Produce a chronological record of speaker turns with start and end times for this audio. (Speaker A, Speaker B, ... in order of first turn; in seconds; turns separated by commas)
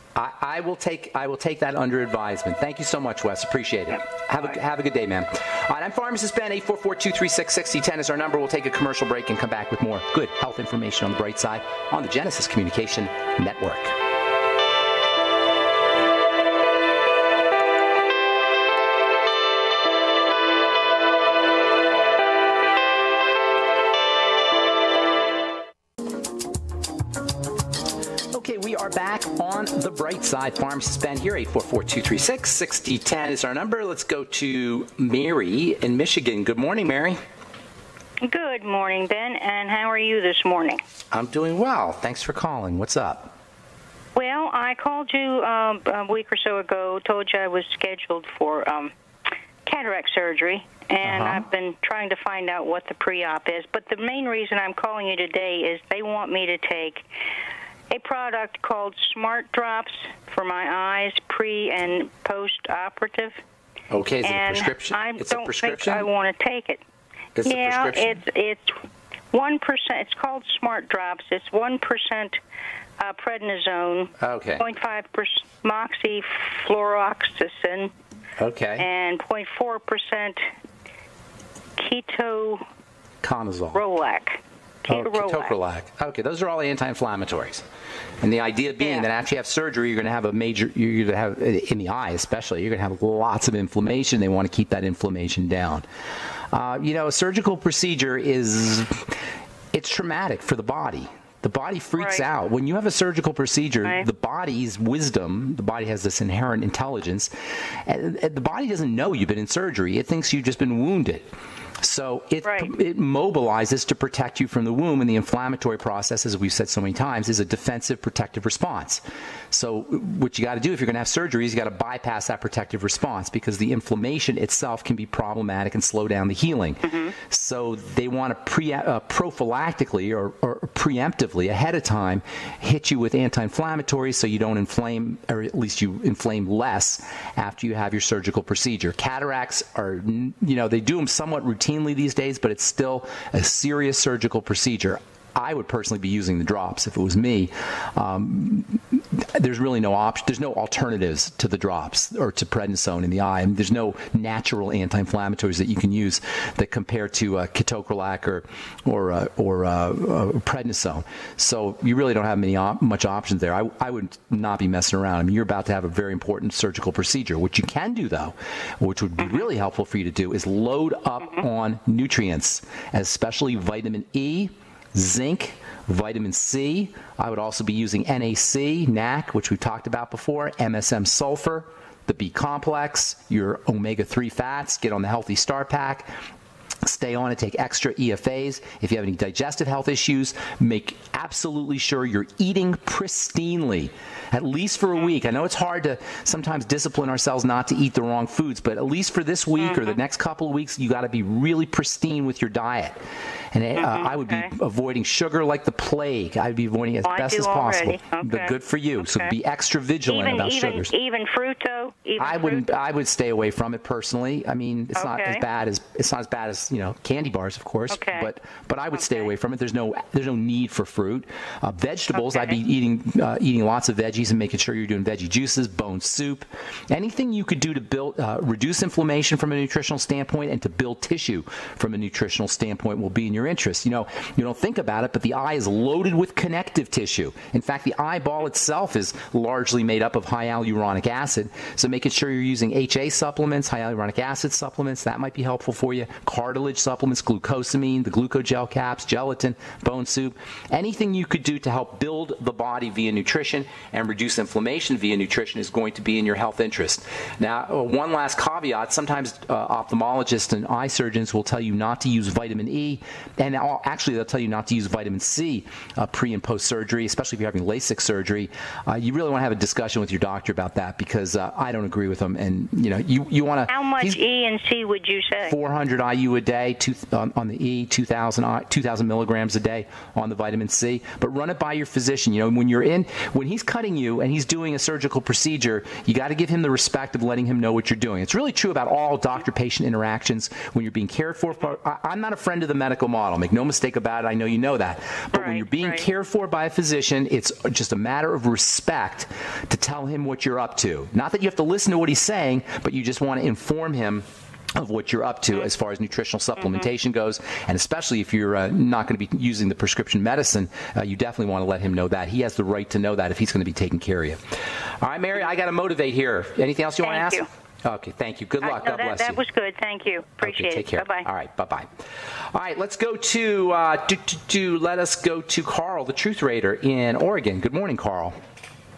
Speaker A: 0.1-13.9, Speaker A: 28.3-37.2, Speaker B: 38.2-40.8, Speaker A: 41.1-43.3, Speaker B: 44.1-48.9, Speaker B: 49.6-57.0, Speaker A: 51.0-51.4, Speaker B: 57.9-63.4, Speaker A: 63.9-66.0, Speaker B: 64.2-66.8, Speaker A: 67.3-68.2, Speaker B: 67.4-68.8, Speaker B: 69.3-72.4, Speaker B: 73.0-77.9, Speaker A: 74.2-74.6, Speaker A: 78.4-78.8, Speaker B: 78.8-80.5, Speaker B: 81.8-82.6, Speaker A: 83.2-83.8, Speaker B: 83.7-85.5, Speaker A: 84.9-87.6, Speaker A: 88.2-95.8, Speaker A: 96.5-99.1, Speaker A: 99.7-107.3, Speaker A: 107.8-111.3, Speaker A: 111.8-186.1, Speaker A: 186.8-203.0, Speaker A: 203.5-210.9, Speaker B: 203.8-204.5, Speaker B: 207.0-209.3, Speaker B: 210.1-212.6, Speaker A: 212.2-274.2, Speaker B: 214.9-215.4, Speaker B: 217.9-218.3, Speaker B: 273.7-275.5, Speaker A: 275.4-314.4, Speaker B: 295.3-296.0, Speaker A: 315.0-319.4, Speaker B: 317.0-317.4, Speaker B: 318.6-321.2, Speaker A: 320.4-321.9, Speaker A: 322.5-328.4